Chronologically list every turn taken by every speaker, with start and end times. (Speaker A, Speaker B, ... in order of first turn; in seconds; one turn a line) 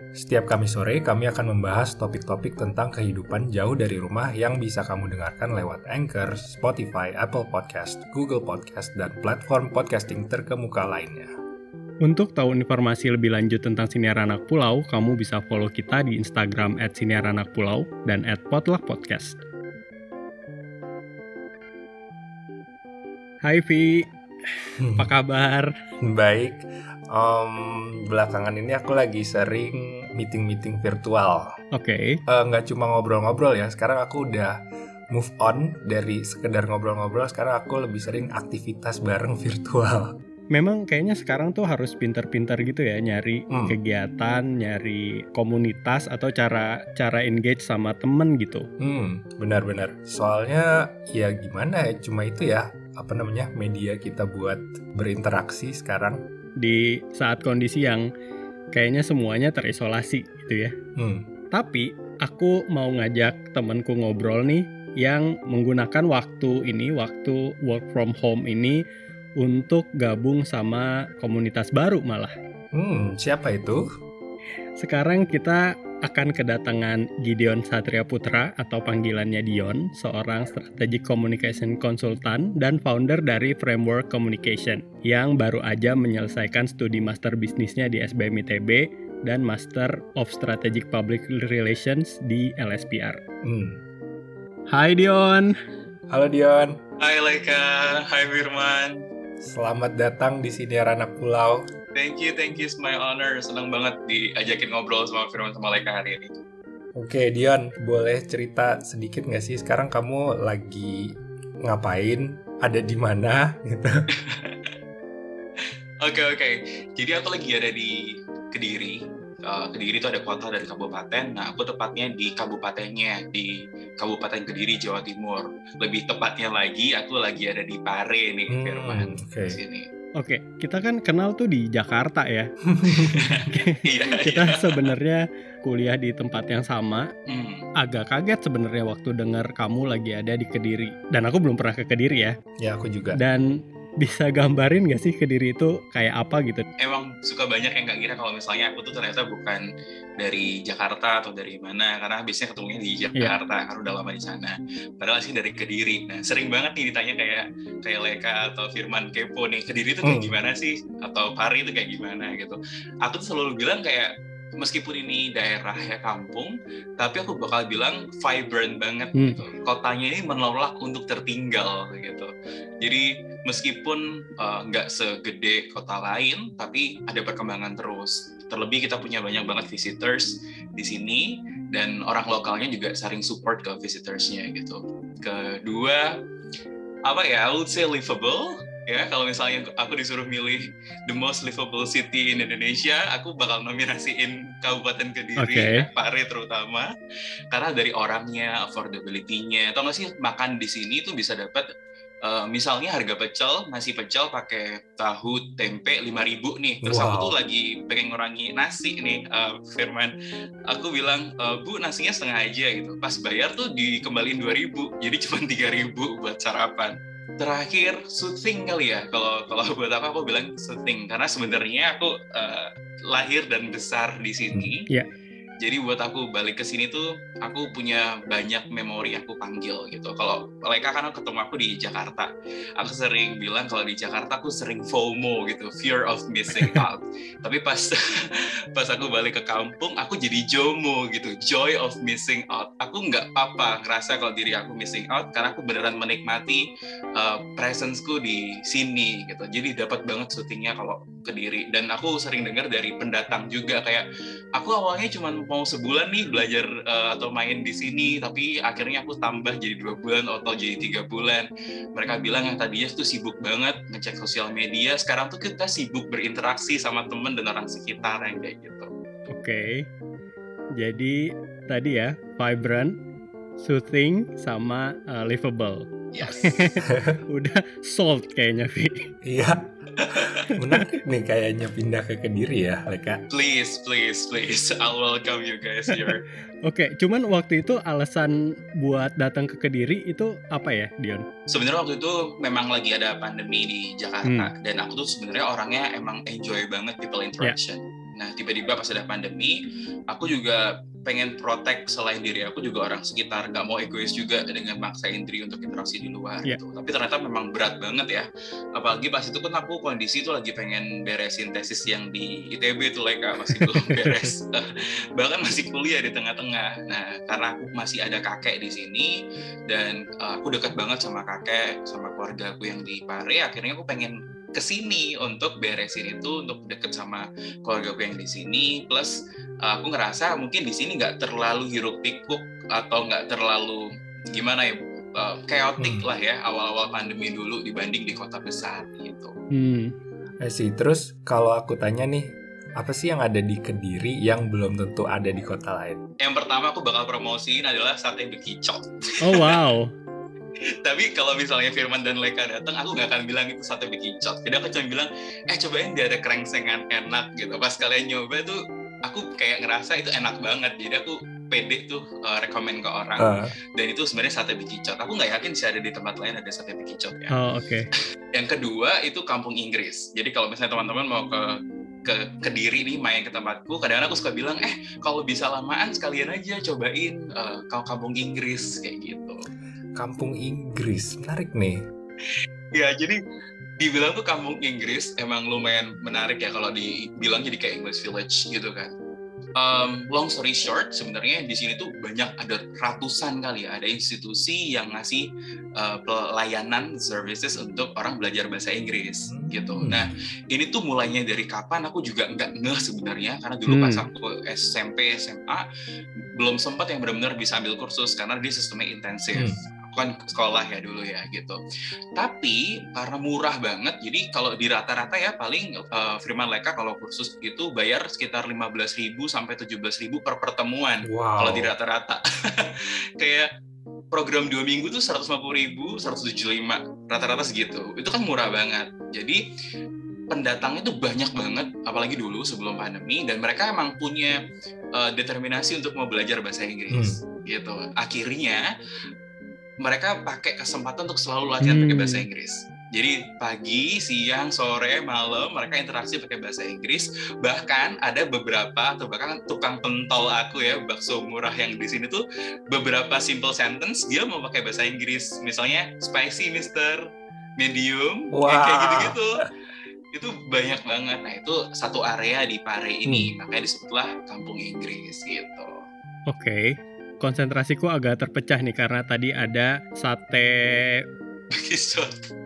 Speaker A: 0.1-11.3
Speaker B: 12.0-19.4
Speaker B: 23.4-25.7
Speaker A: 24.8-25.1
Speaker A: 26.0-31.5
Speaker B: 31.7-32.2
Speaker A: 32.3-34.6
Speaker A: 35.1-40.1
Speaker B: 40.5-48.7
Speaker A: 43.5-43.8
Speaker A: 48.8-56.2
Speaker B: 56.6-58.1
Speaker B: 58.7-60.7
Speaker A: 61.0-61.3
Speaker B: 61.5-68.8
Speaker B: 69.4-72.3
Speaker A: 72.7-73.9
Speaker B: 74.8-93.2
Speaker A: 93.4-93.8
Speaker B: 94.7-95.5
Speaker A: 96.1-96.8
Speaker C: 97.0-99.0
Speaker A: 99.4-101.6
Speaker C: 101.9-106.3
Speaker A: 107.0-114.0
Speaker C: 114.2-114.7
Speaker C: 116.0-118.0
Speaker C: 118.5-129.9
Speaker A: 128.5-129.6
Speaker B: 130.2-132.5
Speaker A: 132.7-133.5
Speaker C: 133.0-134.9
Speaker B: 133.4-137.1
Speaker C: 137.3-137.7
Speaker B: 137.8-142.3
Speaker A: 142.6-143.2
Speaker B: 143.2-143.4
Speaker B: 144.0-146.6
Speaker C: 146.8-149.7
Speaker C: 150.2-172.3
Speaker A: 160.0-160.3
Speaker B: 169.2-169.4
Speaker C: 172.8-186.1
Speaker C: 187.1-196.9
Speaker B: 195.4-195.8
Speaker C: 197.5-201.7
Speaker C: 202.2-210.1
Speaker A: 206.8-207.3
Speaker C: 210.7-224.9
Speaker C: 225.6-268.9
Speaker B: 269.3-269.9
Speaker B: 270.8-272.9
Speaker B: 273.6-279.1
Speaker C: 276.1-276.6
Speaker A: 276.9-277.2
Speaker A: 279.2-283.2
Speaker C: 280.0-280.4
Speaker C: 283.3-286.2
Speaker B: 286.6-291.2
Speaker C: 291.5-299.6
Speaker B: 294.2-294.5
Speaker C: 300.1-319.1
Speaker B: 313.4-314.3
Speaker C: 319.7-339.3
Speaker A: 335.8-336.0
Speaker B: 339.5-339.9
Speaker A: 340.4-346.0
Speaker C: 346.2-349.6
Speaker B: 349.2-349.9
Speaker C: 350.8-367.3
Speaker A: 363.2-363.5
Speaker B: 367.3-367.9
Speaker C: 368.3-379.5
Speaker A: 380.0-381.9
Speaker C: 382.7-383.2
Speaker C: 383.8-388.9
Speaker C: 389.6-405.6
Speaker A: 399.3-400.1
Speaker B: 403.7-404.1
Speaker C: 406.4-411.6
Speaker C: 412.1-423.5
Speaker A: 421.0-421.7
Speaker C: 424.1-429.4
Speaker C: 430.3-434.4
Speaker C: 434.9-438.7
Speaker A: 436.9-437.2
Speaker C: 439.8-457.0
Speaker B: 441.6-442.2
Speaker C: 457.6-459.4
Speaker A: 458.3-459.2
Speaker C: 460.1-465.8
Speaker B: 466.3-471.0
Speaker C: 471.5-472.3